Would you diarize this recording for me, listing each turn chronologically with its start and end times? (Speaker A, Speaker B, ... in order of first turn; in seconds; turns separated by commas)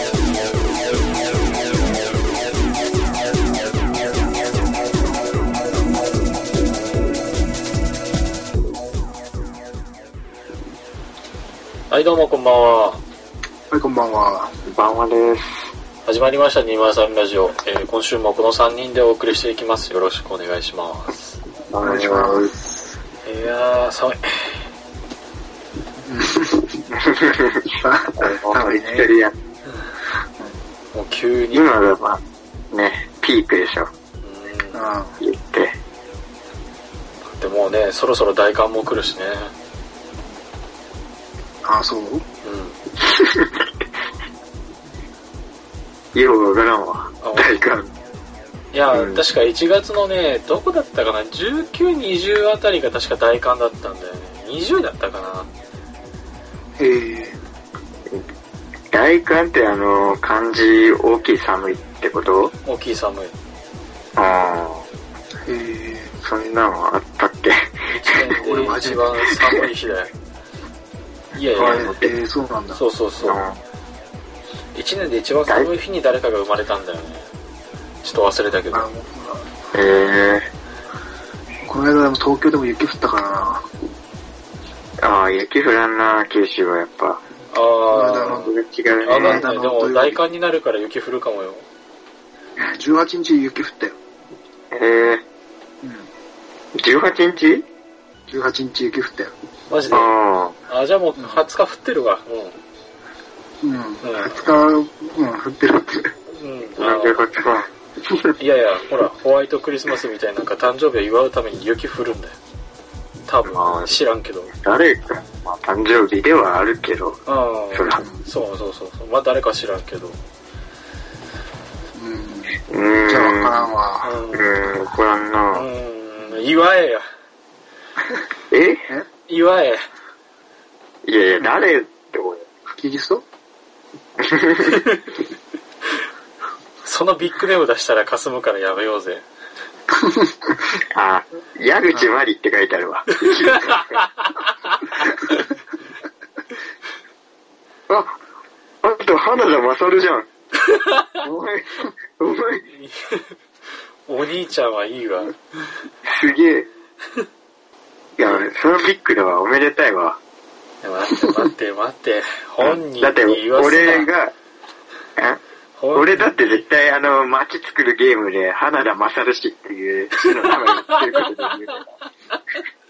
Speaker A: 11.9-13.0, Speaker B: 13.7-14.5, Speaker C: 14.7-15.7, Speaker A: 16.1-21.4, Speaker C: 21.7-22.5, Speaker B: 21.8-23.0, Speaker A: 23.2-24.7, Speaker B: 26.1-26.9, Speaker C: 27.0-29.4, Speaker B: 27.8-29.1, Speaker A: 30.9-31.7, Speaker C: 31.5-33.9, Speaker A: 34.2-34.8, Speaker B: 34.7-35.2, Speaker C: 35.2-35.8, Speaker A: 37.3-39.5, Speaker B: 41.6-42.2, Speaker A: 42.4-42.8, Speaker C: 43.0-43.8, Speaker C: 46.1-47.9, Speaker A: 47.2-47.7, Speaker A: 48.7-55.5, Speaker C: 48.9-49.2, Speaker B: 56.8-57.4, Speaker C: 58.9-62.5, Speaker A: 62.6-63.3, Speaker C: 64.2-64.8, Speaker B: 65.5-66.2, Speaker C: 66.2-68.3, Speaker A: 67.9-70.1, Speaker B: 68.3-69.2, Speaker A: 71.3-72.0, Speaker C: 71.5-72.1, Speaker B: 71.5-72.8, Speaker A: 72.8-73.4, Speaker C: 73.2-73.6, Speaker A: 74.7-77.3, Speaker A: 78.0-78.9, Speaker B: 78.7-79.6, Speaker C: 79.7-80.5, Speaker B: 81.7-83.7, Speaker C: 85.0-87.2, Speaker A: 87.5-91.7, Speaker B: 87.9-88.5, Speaker C: 88.3-89.4, Speaker B: 89.1-90.2, Speaker B: 92.6-94.0, Speaker C: 94.7-95.2, Speaker B: 95.8-96.1, Speaker C: 96.8-97.7, Speaker B: 98.3-99.3, Speaker A: 99.7-100.1, Speaker C: 99.9-100.6, Speaker A: 100.7-102.6, Speaker B: 101.2-101.4, Speaker B: 103.6-106.1, Speaker A: 104.0-104.5, Speaker A: 106.3-107.4, Speaker C: 106.8-107.7, Speaker A: 108.4-112.4, Speaker A: 113.2-114.5, Speaker C: 113.5-117.2, Speaker A: 117.3-120.2, Speaker C: 117.7-118.1, Speaker B: 122.0-124.2, Speaker C: 122.7-123.7, Speaker A: 124.0-124.4, Speaker C: 124.3-125.7, Speaker A: 125.5-127.1, Speaker C: 128.5-128.9, Speaker A: 129.3-129.9, Speaker C: 131.1-132.5, Speaker B: 132.8-133.2, Speaker C: 134.2-134.8, Speaker A: 136.8-139.2, Speaker B: 140.0-140.6, Speaker C: 140.9-144.1, Speaker A: 144.0-145.4, Speaker C: 147.9-148.2, Speaker C: 148.8-150.3, Speaker A: 150.8-151.0, Speaker C: 151.2-152.7, Speaker A: 152.7-153.3, Speaker A: 154.1-155.4, Speaker C: 156.1-156.7, Speaker C: 158.2-160.2, Speaker A: 160.8-164.1, Speaker C: 162.6-164.3, Speaker A: 165.8-166.6, Speaker C: 165.9-171.9, Speaker A: 170.3-171.3